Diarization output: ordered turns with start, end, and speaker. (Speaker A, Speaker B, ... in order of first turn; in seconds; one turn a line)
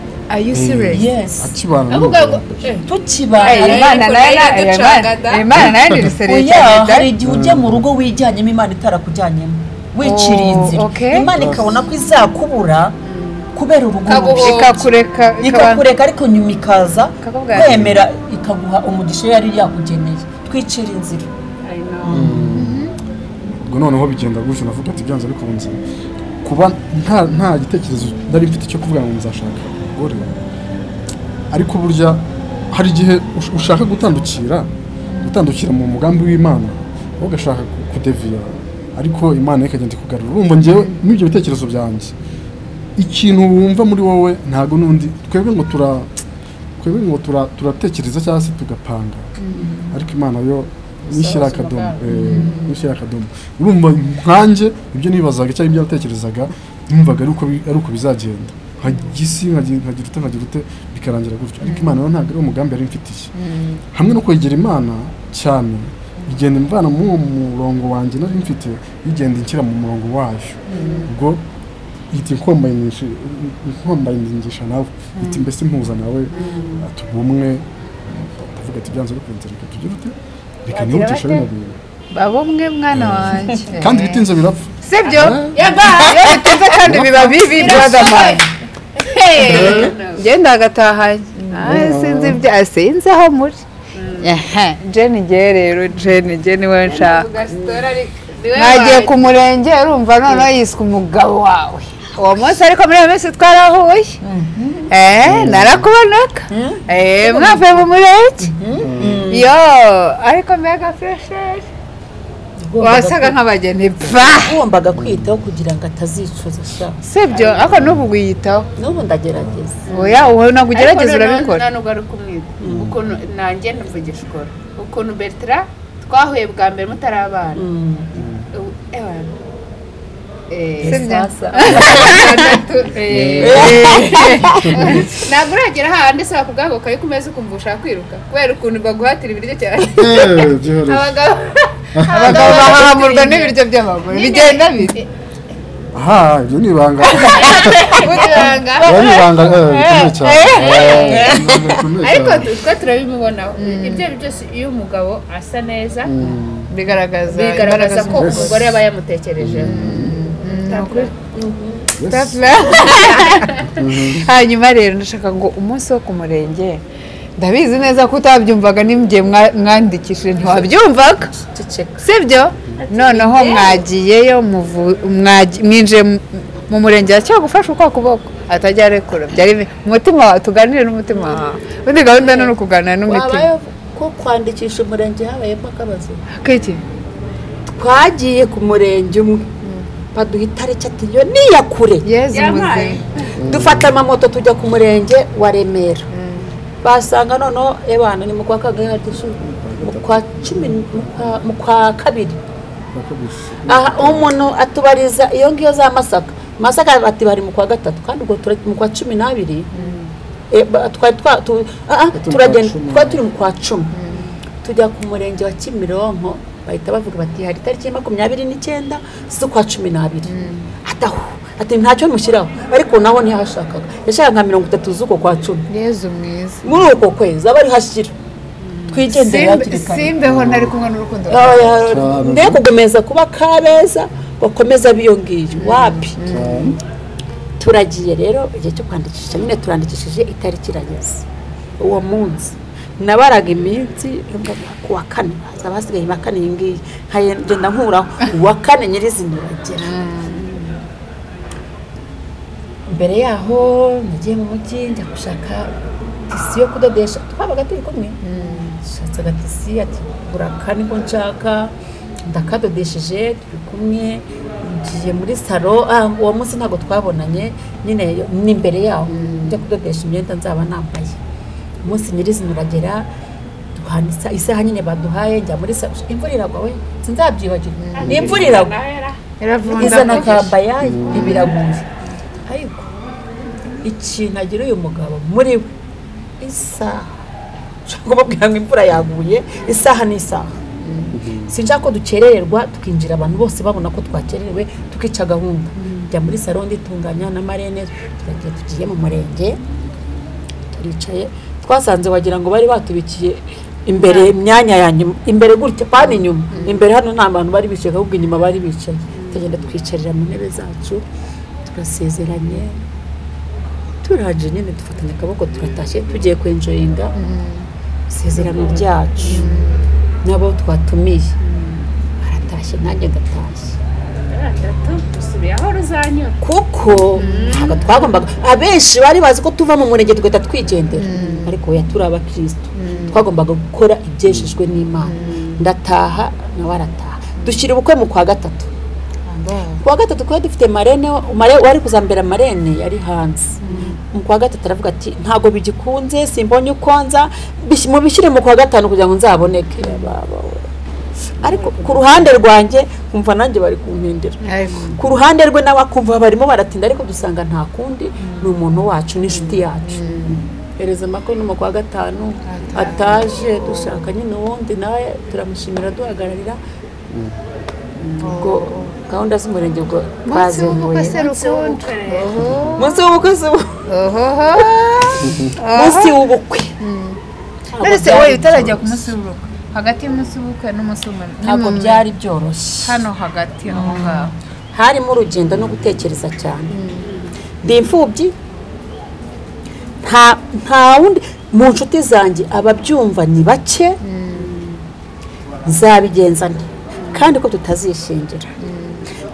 Speaker A: 0.3-1.1
Speaker B: 0.5-2.8
Speaker C: 0.9-1.5
Speaker D: 1.9-2.9
Speaker C: 2.8-4.0
Speaker D: 3.4-5.6
Speaker A: 3.4-7.1
Speaker B: 5.6-6.0
Speaker C: 6.2-12.9
Speaker B: 7.2-7.8
Speaker A: 10.0-11.3
Speaker B: 11.3-11.7
Speaker D: 13.1-13.5
Speaker C: 13.5-14.9
Speaker D: 14.1-15.3
Speaker A: 14.4-15.8
Speaker C: 15.4-21.3
Speaker A: 17.2-17.8
Speaker B: 17.7-18.0
Speaker D: 21.6-22.3
Speaker C: 22.0-22.6
Speaker B: 22.1-22.9
Speaker A: 22.5-22.9
Speaker B: 23.6-25.8
Speaker B: 26.4-30.4
Speaker B: 31.5-34.7
Speaker B: 35.2-42.1
Speaker B: 43.0-46.1
Speaker B: 46.8-49.3
Speaker A: 49.4-49.9
Speaker B: 49.9-63.3
Speaker C: 51.1-52.3
Speaker A: 52.1-52.8
Speaker A: 61.6-62.0
Speaker A: 63.4-63.8
Speaker B: 63.9-71.4
Speaker A: 70.7-71.1
Speaker B: 72.1-81.8
Speaker D: 76.3-76.8
Speaker A: 76.3-76.7
Speaker A: 80.7-81.5
Speaker A: 82.1-84.2
Speaker B: 82.9-85.6
Speaker A: 84.8-88.4
Speaker D: 85.0-90.2
Speaker B: 86.8-87.3
Speaker A: 89.4-93.6
Speaker D: 91.5-91.9
Speaker B: 91.7-92.4
Speaker D: 93.9-94.4
Speaker A: 94.2-97.6
Speaker D: 96.9-99.3
Speaker A: 98.5-104.2
Speaker C: 104.2-104.9
Speaker A: 104.9-108.5
Speaker B: 105.2-105.9
Speaker C: 106.5-107.6
Speaker C: 108.4-109.5
Speaker B: 108.8-109.2
Speaker A: 109.2-111.7
Speaker C: 112.6-113.4
Speaker A: 112.8-114.6
Speaker C: 114.0-117.8
Speaker B: 114.9-115.4
Speaker A: 117.0-118.7
Speaker C: 118.8-119.9
Speaker D: 119.9-127.6
Speaker A: 119.9-121.6
Speaker C: 122.6-123.0
Speaker B: 122.7-122.9
Speaker C: 127.6-128.1
Speaker B: 128.2-128.4
Speaker D: 128.5-129.3
Speaker D: 130.5-131.0
Speaker A: 130.7-135.1
Speaker C: 130.8-132.6
Speaker D: 131.6-145.1
Speaker B: 133.1-133.9
Speaker C: 133.4-135.1
Speaker B: 134.5-134.8
Speaker B: 140.0-141.2
Speaker B: 141.9-142.7
Speaker A: 142.1-145.0
Speaker B: 145.9-148.1
Speaker D: 147.0-149.3
Speaker A: 147.3-151.8
Speaker B: 148.8-152.5
Speaker D: 150.4-156.2
Speaker A: 153.6-154.1
Speaker B: 156.0-156.7
Speaker A: 156.2-158.8
Speaker D: 157.3-161.1
Speaker B: 158.1-158.7
Speaker B: 159.4-160.2
Speaker A: 159.6-161.1
Speaker C: 161.3-161.9
Speaker B: 162.0-162.8
Speaker A: 162.1-166.8
Speaker D: 162.8-163.7
Speaker B: 163.7-164.3
Speaker A: 167.4-171.3
Speaker C: 170.4-170.7
Speaker C: 171.3-172.0
Speaker A: 172.0-183.5
Speaker D: 172.9-173.8
Speaker C: 182.2-182.5
Speaker C: 183.1-186.2
Speaker A: 186.3-186.8
Speaker C: 187.7-189.5
Speaker C: 190.1-192.1
Speaker A: 192.0-193.0
Speaker D: 192.3-193.4
Speaker B: 193.4-193.9
Speaker C: 193.4-196.1
Speaker A: 196.1-196.5
Speaker C: 196.8-202.4
Speaker B: 199.4-201.4
Speaker B: 202.9-204.3
Speaker C: 203.7-209.7
Speaker A: 209.7-210.0
Speaker D: 209.8-210.1
Speaker C: 210.5-213.9
Speaker B: 212.2-213.2
Speaker A: 213.9-214.3
Speaker C: 214.6-225.7
Speaker A: 220.3-220.7
Speaker A: 225.7-226.6
Speaker C: 226.6-228.1
Speaker D: 228.7-229.0
Speaker C: 228.9-230.2
Speaker A: 229.1-232.0
Speaker B: 230.2-230.7
Speaker C: 231.3-236.2
Speaker B: 231.9-232.6
Speaker A: 235.6-236.8
Speaker B: 236.2-236.8
Speaker C: 237.6-241.2
Speaker C: 241.8-249.9
Speaker A: 249.8-250.4
Speaker C: 252.9-258.2
Speaker A: 258.2-258.8
Speaker C: 258.8-261.8
Speaker C: 262.3-271.2
Speaker A: 269.1-269.6
Speaker C: 271.8-273.1
Speaker C: 273.8-278.7
Speaker A: 277.8-278.1
Speaker D: 277.9-279.2
Speaker B: 278.1-278.6
Speaker A: 279.4-281.6
Speaker C: 279.6-281.9
Speaker D: 279.8-280.2
Speaker B: 280.8-281.5
Speaker C: 282.5-282.9
Speaker C: 283.8-285.7
Speaker C: 286.4-287.1
Speaker C: 287.9-290.6
Speaker A: 290.8-291.1
Speaker B: 291.1-291.5
Speaker C: 291.4-299.6
Speaker C: 300.7-311.0
Speaker A: 306.5-306.9
Speaker C: 311.6-312.8
Speaker C: 314.0-317.1
Speaker A: 317.1-317.7
Speaker C: 318.1-319.6
Speaker D: 318.5-318.8
Speaker A: 319.2-319.9
Speaker C: 320.2-321.4
Speaker D: 321.4-321.9
Speaker C: 322.2-323.8
Speaker D: 324.3-326.4
Speaker C: 326.4-338.7
Speaker D: 327.1-327.9
Speaker A: 327.2-327.9
Speaker A: 330.9-331.6
Speaker A: 332.8-333.2
Speaker A: 335.0-335.5
Speaker D: 335.1-335.5
Speaker A: 337.4-337.6
Speaker A: 339.3-339.8
Speaker C: 339.8-350.7
Speaker A: 343.6-344.0
Speaker A: 349.8-350.1
Speaker C: 351.4-366.6
Speaker D: 351.4-352.2
Speaker A: 354.4-355.0
Speaker A: 358.2-358.5
Speaker A: 359.8-360.4
Speaker A: 362.5-364.1
Speaker A: 368.2-368.9
Speaker C: 368.3-371.3
Speaker A: 370.2-372.9
Speaker D: 371.0-372.5
Speaker C: 372.8-373.9
Speaker A: 373.9-374.7
Speaker C: 374.5-376.8
Speaker A: 375.5-376.2
Speaker A: 376.8-377.2
Speaker C: 377.7-379.1
Speaker A: 377.8-382.1
Speaker C: 381.4-383.0
Speaker A: 382.8-384.3
Speaker C: 383.7-386.8
Speaker A: 386.7-387.1
Speaker D: 387.1-387.3
Speaker C: 387.6-388.3
Speaker C: 390.0-394.0
Speaker A: 394.0-394.5
Speaker D: 394.3-394.8
Speaker C: 395.6-398.6
Speaker A: 398.6-399.1